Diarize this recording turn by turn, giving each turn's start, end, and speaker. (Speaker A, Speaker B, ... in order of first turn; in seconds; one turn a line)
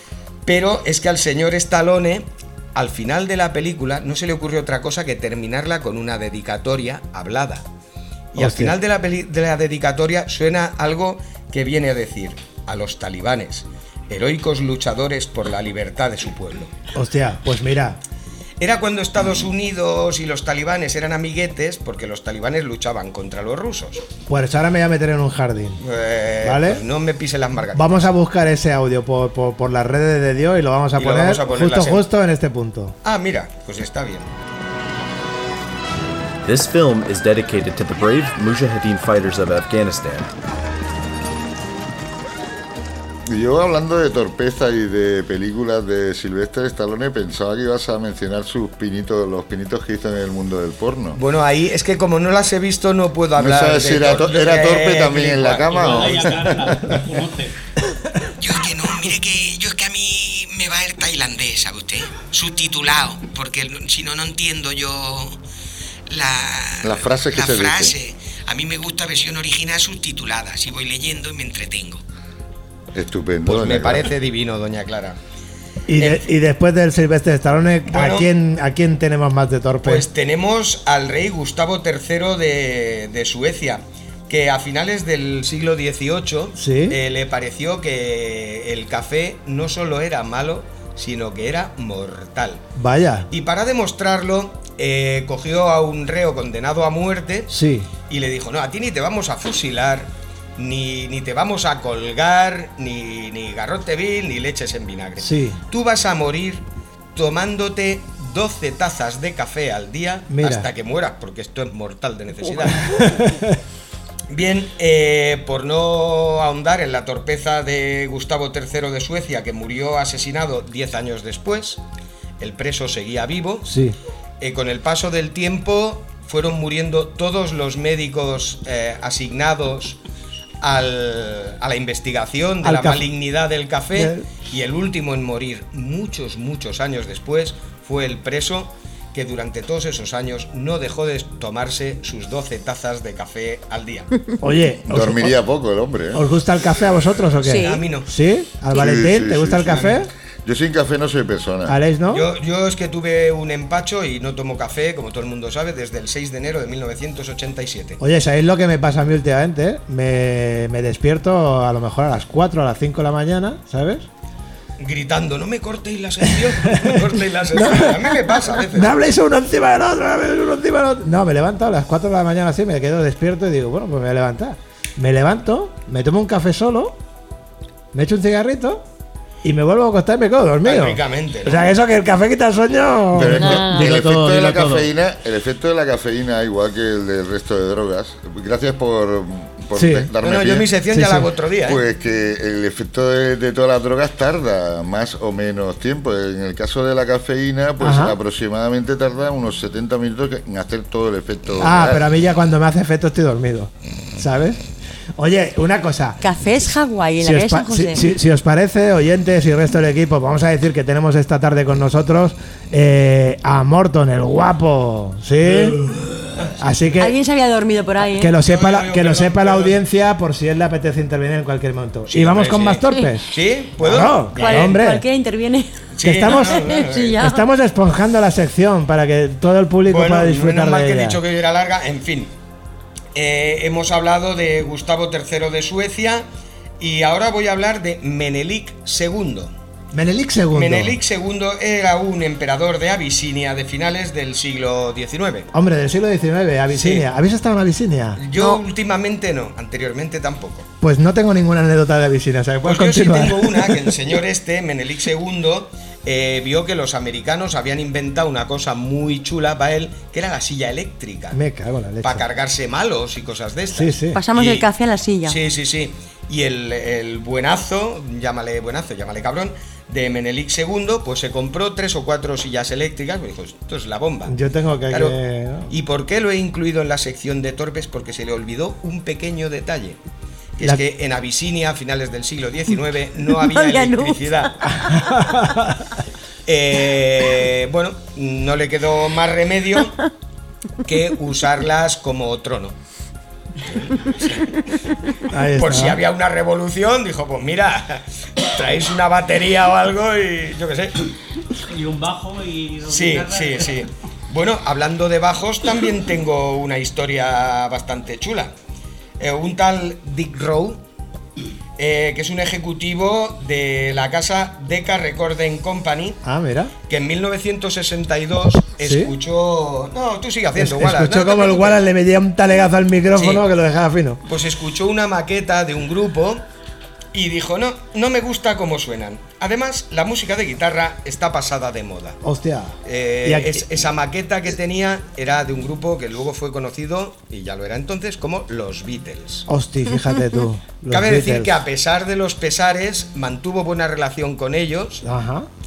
Speaker A: 0.5-7.6
Speaker A: 8.3-16.7
Speaker B: 8.4-8.8
Speaker B: 16.9-18.0
Speaker A: 18.6-24.1
Speaker B: 24.3-25.8
Speaker A: 25.8-28.1
Speaker B: 26.4-26.8
Speaker B: 27.7-33.0
Speaker A: 31.0-32.1
Speaker A: 33.0-34.3
Speaker C: 36.4-40.3
Speaker D: 43.3-51.2
Speaker A: 51.1-56.3
Speaker D: 53.4-57.0
Speaker E: 55.7-57.6
Speaker F: 58.4-65.4
Speaker F: 66.1-72.0
Speaker D: 66.8-68.0
Speaker D: 72.9-74.1
Speaker A: 73.5-75.2
Speaker B: 75.9-80.1
Speaker A: 76.0-76.3
Speaker A: 77.9-78.3
Speaker A: 79.8-92.6
Speaker B: 86.6-87.0
Speaker B: 92.8-93.3
Speaker A: 93.3-97.6
Speaker B: 97.5-97.9
Speaker A: 98.1-113.0
Speaker B: 105.2-105.6
Speaker B: 110.3-110.7
Speaker B: 112.8-113.6
Speaker A: 114.3-121.8
Speaker A: 122.4-123.7
Speaker B: 123.7-124.0
Speaker A: 124.4-130.0
Speaker A: 130.6-144.1
Speaker B: 132.6-133.1
Speaker B: 133.9-134.3
Speaker B: 144.4-145.4
Speaker D: 144.9-146.2
Speaker B: 146.1-150.1
Speaker G: 147.4-147.8
Speaker A: 147.6-148.1
Speaker D: 148.7-149.9
Speaker A: 149.7-150.0
Speaker D: 150.4-151.8
Speaker B: 151.7-152.3
Speaker A: 152.1-158.0
Speaker B: 158.0-164.1
Speaker A: 164.8-169.0
Speaker B: 166.4-177.0
Speaker B: 177.9-178.8
Speaker B: 179.4-183.7
Speaker A: 180.6-181.6
Speaker D: 183.1-190.7
Speaker E: 183.3-184.9
Speaker B: 189.8-190.1
Speaker A: 190.2-191.8
Speaker B: 190.9-191.3
Speaker D: 191.7-202.0
Speaker B: 197.8-198.2
Speaker B: 201.6-204.6
Speaker B: 205.2-206.2
Speaker G: 206.2-208.0
Speaker B: 207.2-215.8
Speaker A: 215.9-216.6
Speaker B: 216.6-217.2
Speaker G: 217.0-218.3
Speaker B: 218.0-225.1
Speaker A: 218.4-219.8
Speaker A: 222.1-224.8
Speaker G: 224.4-227.4
Speaker A: 225.9-227.2
Speaker B: 226.0-231.2
Speaker A: 229.9-232.3
Speaker A: 233.2-236.3
Speaker A: 236.8-239.5
Speaker B: 239.9-241.0
Speaker A: 240.5-245.5
Speaker B: 245.5-248.2
Speaker A: 246.7-247.1
Speaker A: 248.2-250.7
Speaker G: 248.3-248.6
Speaker B: 250.8-253.9
Speaker A: 252.6-261.4
Speaker B: 261.3-262.2
Speaker A: 262.0-264.7
Speaker B: 263.7-264.2
Speaker G: 264.1-265.4
Speaker A: 265.2-274.4
Speaker B: 274.3-275.7
Speaker A: 274.9-275.2
Speaker A: 275.7-280.0
Speaker A: 280.6-284.6
Speaker G: 283.4-284.5
Speaker B: 284.8-285.8
Speaker A: 286.5-290.0
Speaker A: 290.9-292.8
Speaker A: 293.6-294.6
Speaker B: 295.3-296.0
Speaker A: 295.6-301.1
Speaker E: 301.6-303.8
Speaker A: 302.9-308.5
Speaker A: 309.2-310.8
Speaker A: 311.8-316.2
Speaker B: 316.2-316.7
Speaker A: 316.9-321.8
Speaker B: 318.8-319.1
Speaker B: 320.6-324.2
Speaker A: 323.1-323.4
Speaker A: 324.2-326.4
Speaker A: 327.1-332.2
Speaker B: 332.2-333.6
Speaker A: 332.9-339.5
Speaker B: 339.5-341.6
Speaker A: 340.9-345.1
Speaker B: 345.0-345.5